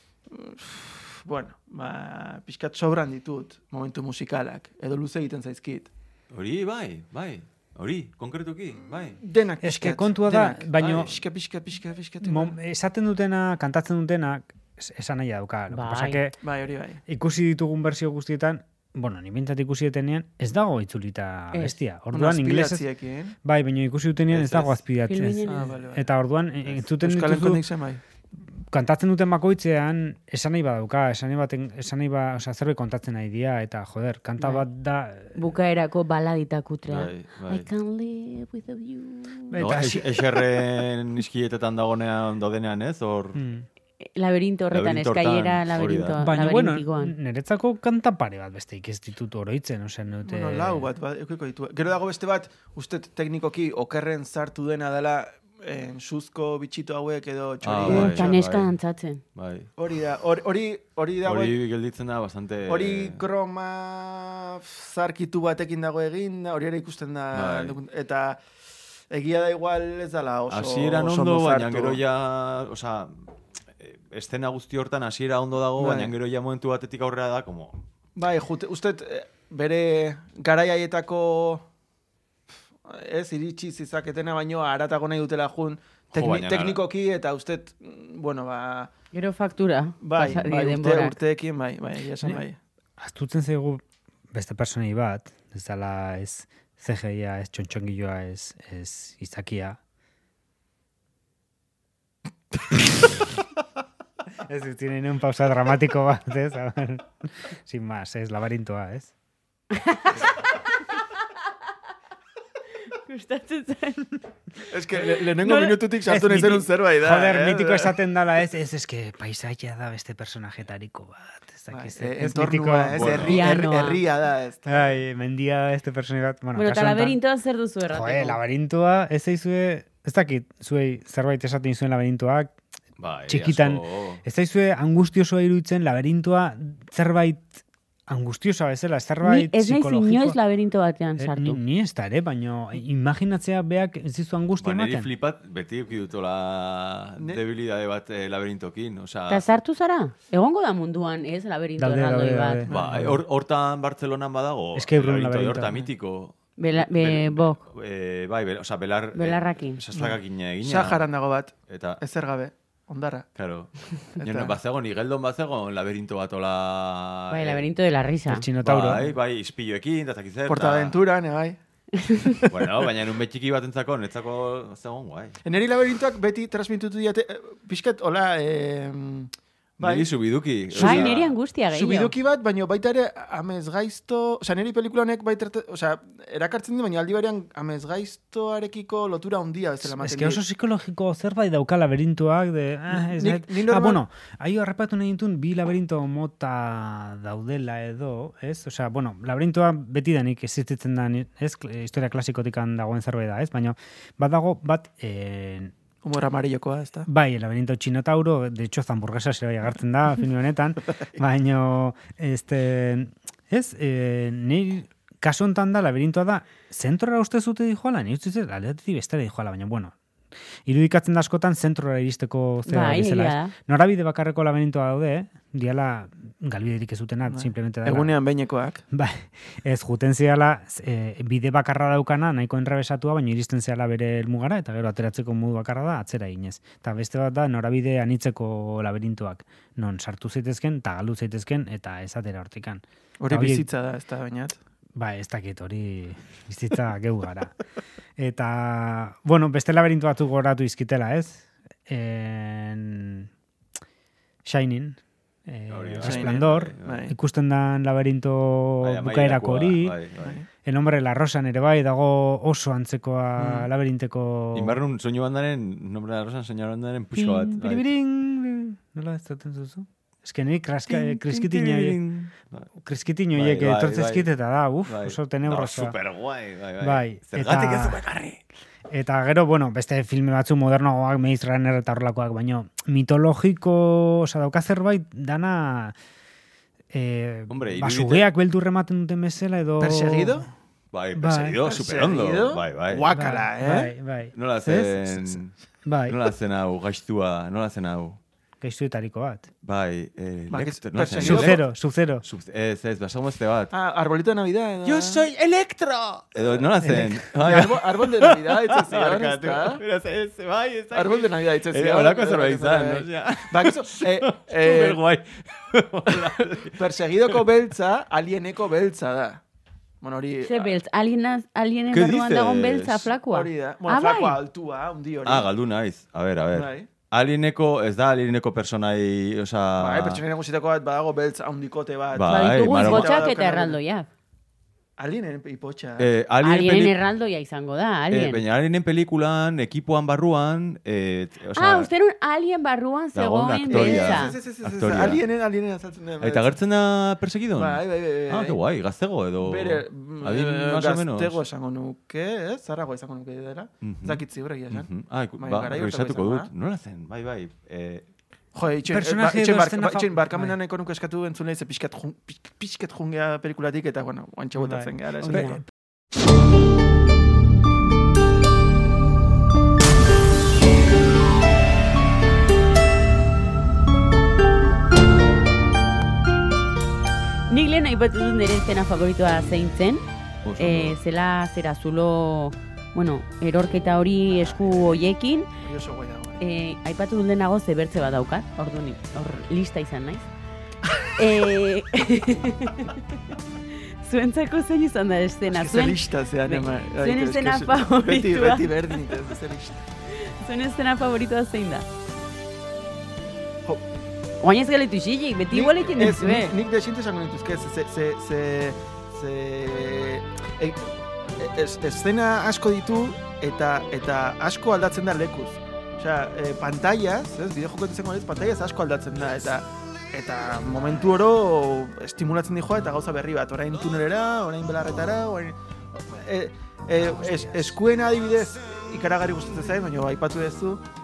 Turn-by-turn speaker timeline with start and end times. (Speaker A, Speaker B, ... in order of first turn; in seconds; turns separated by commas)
Speaker A: 0.3-5.9, Speaker B: 6.3-9.2, Speaker A: 9.2-12.6, Speaker C: 9.6-11.1, Speaker C: 12.2-16.4, Speaker D: 15.7-16.2, Speaker A: 16.4-17.0, Speaker C: 17.1-22.8, Speaker A: 22.1-23.3, Speaker C: 23.4-27.6, Speaker B: 24.3-24.8, Speaker D: 25.1-25.7, Speaker A: 25.4-26.1, Speaker A: 26.8-28.0, Speaker C: 28.7-35.4, Speaker D: 34.4-34.6, Speaker D: 35.3-39.6, Speaker B: 36.9-37.7, Speaker C: 39.5-40.1, Speaker B: 39.6-43.4, Speaker C: 43.3-43.6, Speaker D: 44.0-47.1, Speaker B: 44.7-46.2, Speaker C: 46.2-50.9, Speaker A: 50.2-58.3, Speaker B: 57.6-58.7, Speaker D: 57.8-59.2, Speaker B: 59.3-59.7, Speaker A: 59.8-61.5, Speaker B: 61.2-63.2, Speaker A: 62.7-68.4, Speaker B: 67.3-67.8, Speaker A: 69.1-72.0, Speaker B: 70.5-77.8, Speaker A: 75.8-76.1, Speaker A: 78.2-81.7, Speaker A: 82.8-88.9, Speaker B: 86.1-86.8, Speaker D: 89.1-91.2, Speaker A: 90.0-92.6, Speaker C: 93.0-99.8, Speaker C: 104.5-109.1, Speaker D: 109.7-110.3, Speaker D: 112.9-114.1, Speaker A: 114.7-118.0, Speaker D: 115.0-115.8, Speaker C: 116.1-123.2, Speaker A: 121.7-124.7, Speaker B: 122.9-123.4, Speaker D: 123.2-124.0, Speaker C: 124.7-127.2, Speaker D: 126.5-128.4, Speaker C: 127.9-132.5, Speaker B: 133.0-134.2, Speaker C: 133.3-137.6, Speaker C: 138.1-140.4, Speaker D: 139.2-141.6, Speaker C: 141.2-145.1, Speaker B: 144.6-149.5, Speaker D: 149.3-152.7, Speaker C: 151.8-153.2, Speaker A: 152.7-153.1, Speaker B: 152.7-161.0, Speaker C: 154.8-155.7, Speaker D: 156.6-157.6, Speaker D: 159.1-159.8, Speaker A: 159.9-163.3, Speaker B: 161.7-162.0, Speaker B: 163.3-167.7, Speaker A: 164.2-164.5, Speaker D: 167.3-168.5, Speaker C: 168.3-169.0, Speaker B: 168.6-170.9, Speaker A: 170.5-171.6, Speaker D: 171.9-172.4, Speaker B: 172.5-175.4, Speaker A: 175.4-180.1, Speaker B: 179.8-181.3, Speaker A: 180.7-181.2, Speaker D: 180.7-182.1, Speaker A: 181.7-190.4, Speaker C: 189.9-205.7, Speaker A: 192.9-194.0, Speaker A: 206.0-207.1, Speaker C: 207.1-219.9, Speaker C: 220.7-228.2, Speaker D: 222.6-223.5, Speaker A: 227.2-228.8, Speaker C: 228.9-243.7, Speaker A: 243.2-244.6, Speaker C: 244.9-247.5, Speaker C: 248.2-253.3, Speaker C: 254.4-260.0, Speaker B: 255.7-257.0, Speaker A: 256.0-257.1, Speaker B: 258.8-260.4, Speaker C: 260.6-264.8, Speaker A: 263.4-263.7, Speaker B: 264.5-267.9, Speaker C: 267.1-272.0, Speaker B: 270.9-272.7, Speaker C: 272.8-275.9, Speaker B: 273.3-274.3, Speaker B: 274.9-278.4, Speaker C: 276.8-278.0, Speaker C: 278.9-285.9, Speaker C: 286.9-290.5, Speaker B: 287.5-288.2, Speaker A: 289.8-290.5, Speaker B: 290.9-293.1, Speaker C: 291.2-291.6, Speaker A: 291.6-293.9, Speaker C: 293.1-296.2, Speaker B: 294.3-295.6, Speaker B: 296.1-298.2, Speaker C: 298.6-299.5, Speaker B: 299.6-301.6, Speaker A: 300.5-301.6, Speaker C: 301.2-302.2, Speaker B: 302.2-303.7, Speaker A: 303.7-305.2, Speaker B: 304.8-317.4, Speaker C: 306.8-307.6, Speaker A: 307.2-309.8, Speaker A: 310.9-315.0, Speaker A: 316.7-319.4, Speaker A: 320.0-320.8, Speaker D: 320.4-324.4, Speaker B: 321.9-323.1, Speaker A: 323.3-325.5, Speaker B: 325.2-330.2, Speaker A: 326.5-326.9, Speaker A: 329.8-333.8, Speaker B: 332.1-333.1, Speaker D: 332.2-334.1, Speaker A: 335.0-336.1, Speaker B: 336.0-336.9, Speaker D: 336.4-338.4, Speaker B: 338.1-341.9, Speaker D: 341.6-344.3, Speaker B: 343.1-345.2, Speaker A: 343.7-346.5, Speaker B: 346.2-351.4, Speaker A: 347.5-348.6, Speaker A: 349.4-356.5, Speaker B: 353.8-358.1, Speaker A: 358.5-365.6, Speaker C: 358.9-360.5, Speaker C: 364.6-365.6, Speaker D: 365.2-365.6, Speaker D: 377.5-380.0, Speaker B: 380.4-381.0, Speaker D: 380.6-385.5, Speaker A: 385.6-386.4, Speaker D: 386.4-390.3, Speaker D: 391.1-399.1, Speaker A: 395.5-399.8, Speaker D: 400.1-401.9, Speaker D: 404.4-406.5, Speaker A: 405.5-410.9, Speaker A: 411.4-430.8, Speaker C: 426.9-427.7